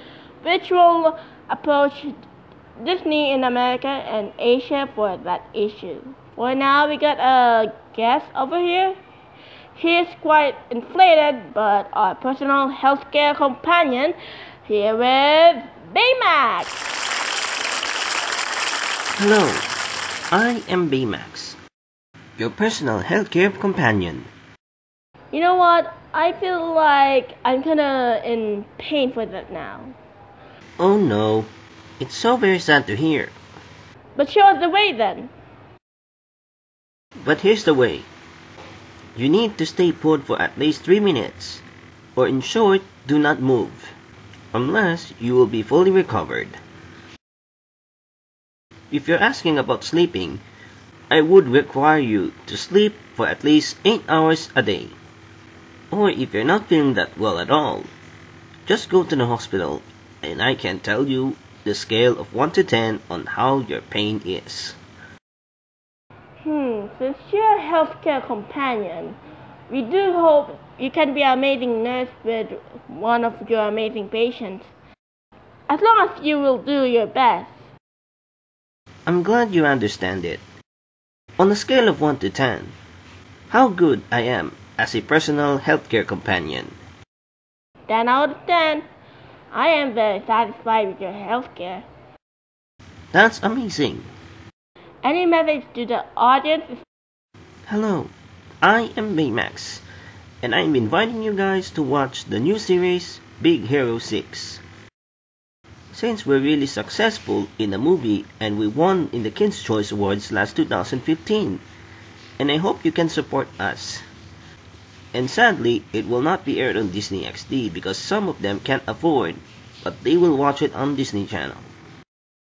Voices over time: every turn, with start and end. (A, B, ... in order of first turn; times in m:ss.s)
0:00.4-0:02.2 A
0:02.8-0:09.0 A
0:09.7-0:16.7 A
0:19.2-0:19.7 B
0:20.3-0:21.6 B
0:22.4-0:24.3 B
0:25.3-0:29.9 A
0:30.8-0:33.3 B
0:34.2-0:35.3 A
0:37.2-0:38.1 B
0:39.2-0:41.6 B
0:42.2-0:43.9 B
0:44.5-0:46.6 B
0:48.9-0:50.4 B
0:51.1-0:54.9 B
0:55.9-0:57.9 B
0:58.6-1:04.8 B
1:06.4-1:09.2 A
1:09.7-1:14.7 A
1:15.7-1:17.5 A
1:19.0-1:20.4 B
1:21.4-1:22.7 B
1:23.5-1:26.7 B
1:27.9-1:28.8 A
1:29.5-1:31.8 A
1:33.1-1:34.1 B
1:35.0-1:36.8 A
1:37.7-1:39.8 B
1:40.4-1:44.6 B
1:45.9-1:51.6 B
1:52.4-1:54.0 B
1:55.1-2:01.7 B